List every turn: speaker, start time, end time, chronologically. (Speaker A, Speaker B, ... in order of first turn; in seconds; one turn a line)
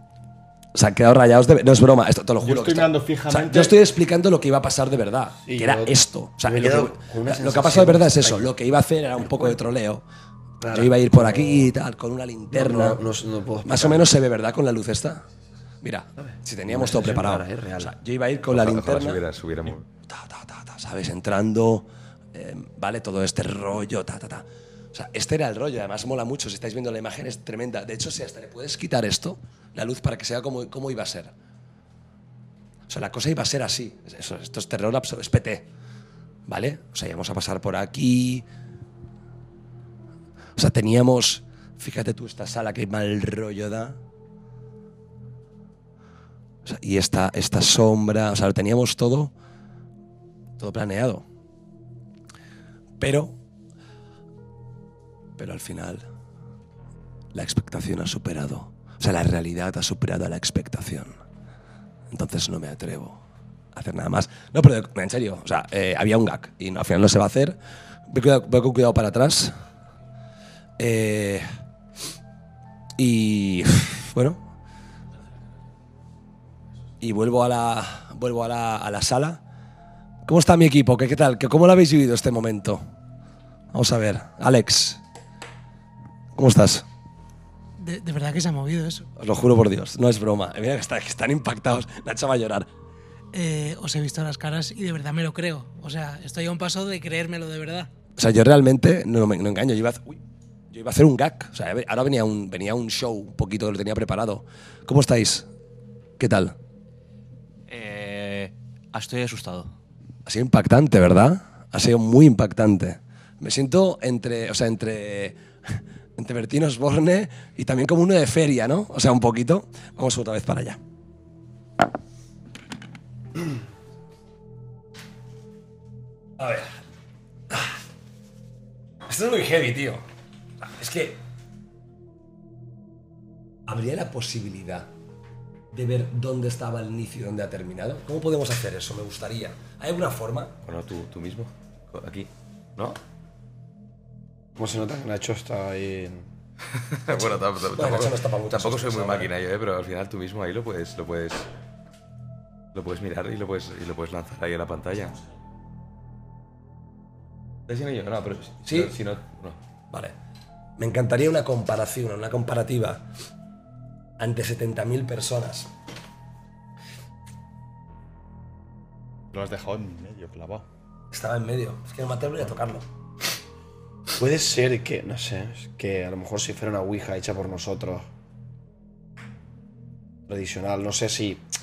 Speaker A: 0.7-10.0
Speaker B: 2.4-3.8
Speaker C: 5.5-8.5
Speaker C: 9.3-9.6
Speaker C: 10.6-11.7
Speaker A: 10.7-13.0
Speaker C: 12.5-14.1
Speaker A: 13.7-15.3
Speaker A: 15.8-19.2
Speaker D: 16.7-17.9
Speaker D: 18.5-19.9
Speaker A: 20.1-31.3
Speaker A: 32.9-35.7
Speaker A: 36.5-38.5
Speaker A: 40.6-44.0
Speaker A: 46.6-49.3
Speaker A: 50.6-51.3
Speaker A: 53.0-53.4
Speaker A: 55.4-56.1
Speaker A: 57.3-61.2
Speaker A: 62.1-63.2
Speaker A: 63.7-67.6
Speaker A: 68.1-69.5
Speaker A: 70.8-71.5
Speaker A: 73.0-74.4
Speaker A: 77.0-79.4
Speaker A: 80.2-82.8
Speaker A: 83.7-85.0
Speaker A: 86.3-86.8
Speaker E: 87.8-89.1
Speaker A: 89.2-92.7
Speaker E: 93.3-97.9
Speaker A: 98.2-105.5
Speaker A: 106.2-106.6
Speaker F: 107.7-109.7
Speaker A: 110.3-120.8
Speaker A: 126.4-126.8
Speaker A: 129.1-130.0
Speaker A: 130.8-131.2
Speaker A: 133.7-134.9
Speaker A: 135.7-140.5
Speaker D: 140.7-143.0
Speaker C: 144.6-146.2
Speaker D: 146.8-151.5
Speaker A: 147.7-149.3
Speaker D: 152.7-155.2
Speaker D: 157.7-159.6
Speaker A: 158.7-159.0
Speaker A: 160.8-163.1
Speaker A: 164.2-165.7
Speaker B: 169.3-170.7
Speaker A: 171.1-172.9
Speaker C: 174.2-178.1
Speaker C: 180.3-181.4